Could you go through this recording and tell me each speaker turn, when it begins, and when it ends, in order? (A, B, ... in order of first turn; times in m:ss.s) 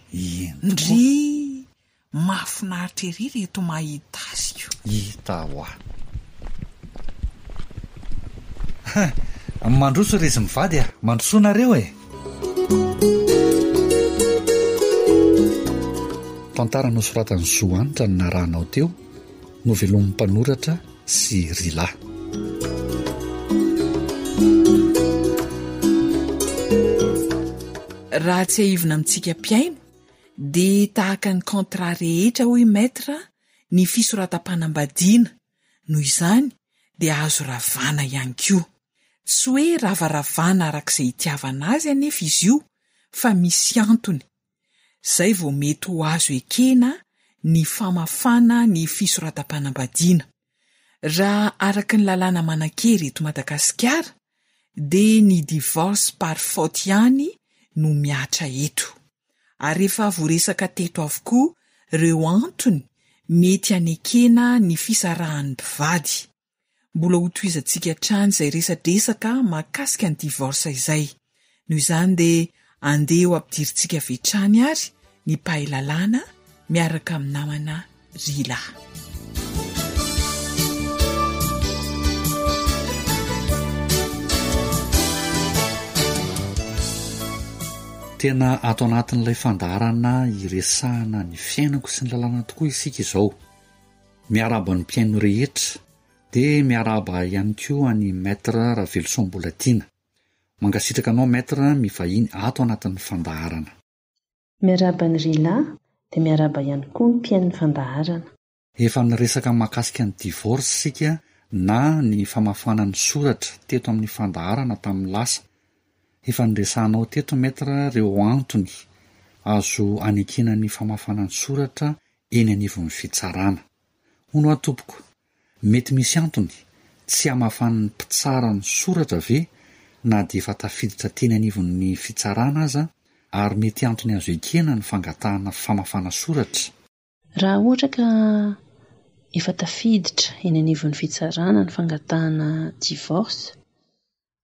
0:00.1-0:01.0 A
0:00.6-0:04.8 B
0:04.8-0:05.8 A
0:08.9-0:11.9 A
0:16.5-0:19.0 A
0:19.6-0:22.0 A
0:28.1-0:29.8 B
0:30.4-0:35.3 B
0:35.9-0:38.7 B
0:39.3-0:44.2 B
0:45.0-0:50.3 B
0:51.0-0:54.1 B
0:54.8-0:59.0 B
0:59.6-1:06.3 B
1:06.9-1:11.1 B
1:11.7-1:18.7 B
1:28.2-1:33.4 A
1:34.3-1:35.8 A
1:36.3-1:39.9 A
1:40.6-1:43.7 A
1:44.6-1:48.3 C
1:48.8-1:55.4 A
1:56.2-1:58.8 A
1:59.4-2:03.6 A
2:04.3-2:05.0 A
2:05.6-2:09.5 A
2:10.0-2:16.7 A
2:17.4-2:18.6 C
2:19.3-2:23.6 C